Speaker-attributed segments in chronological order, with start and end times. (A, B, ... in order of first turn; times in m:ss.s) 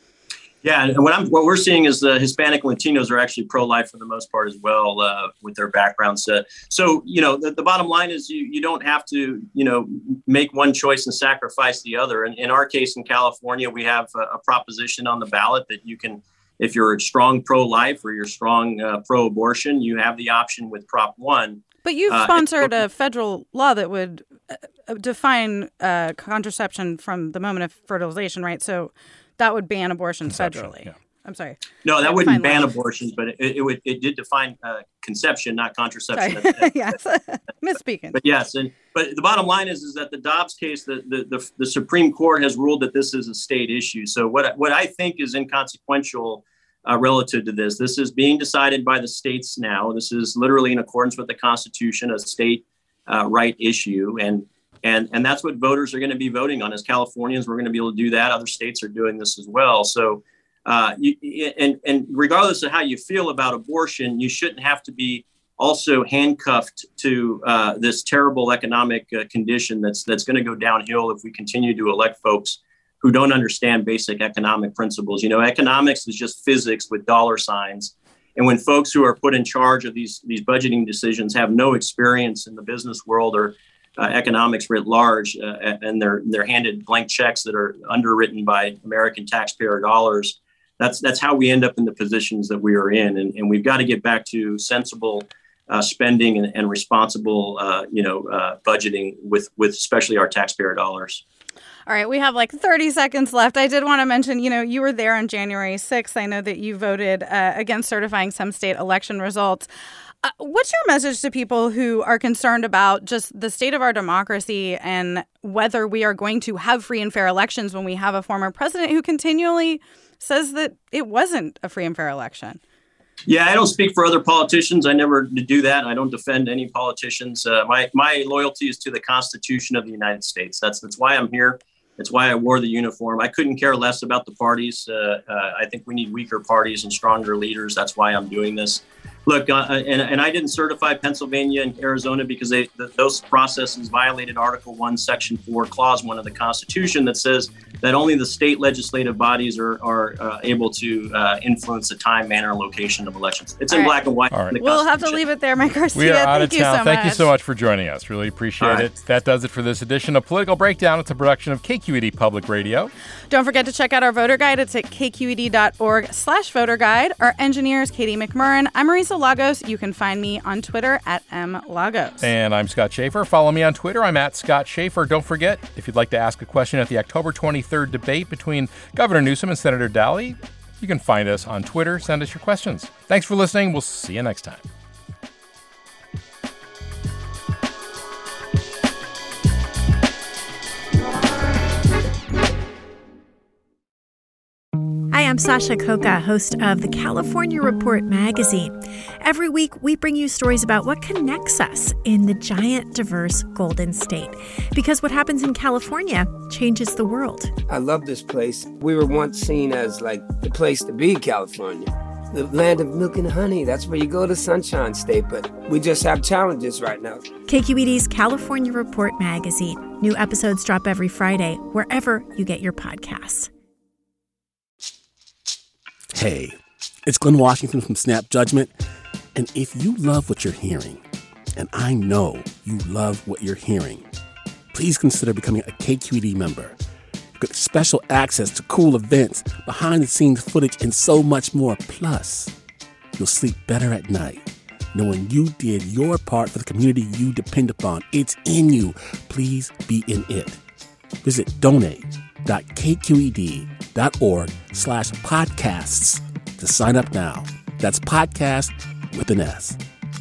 0:00.6-0:22.7 A
0:21.8-0:32.7 B
0:30.3-0:30.9 C
0:31.8-0:36.9 A
0:36.2-0:38.2 B
0:38.1-1:41.2 A
1:41.9-1:49.7 B
1:50.2-2:02.6 B
2:03.3-2:35.2 A
2:34.6-2:37.3 B
2:36.0-2:42.9 C
2:38.6-2:38.9 A
2:43.3-2:52.3 B
2:52.2-3:04.6 C
3:15.1-3:27.5 D
3:27.7-3:37.2 E
3:37.5-3:43.5 D
3:46.1-3:48.8 F
3:49.4-3:51.0 F
3:51.6-3:54.1 F
3:54.7-3:56.8 F
3:57.4-4:02.5 F
4:03.2-4:10.6 F
4:11.2-4:19.8 F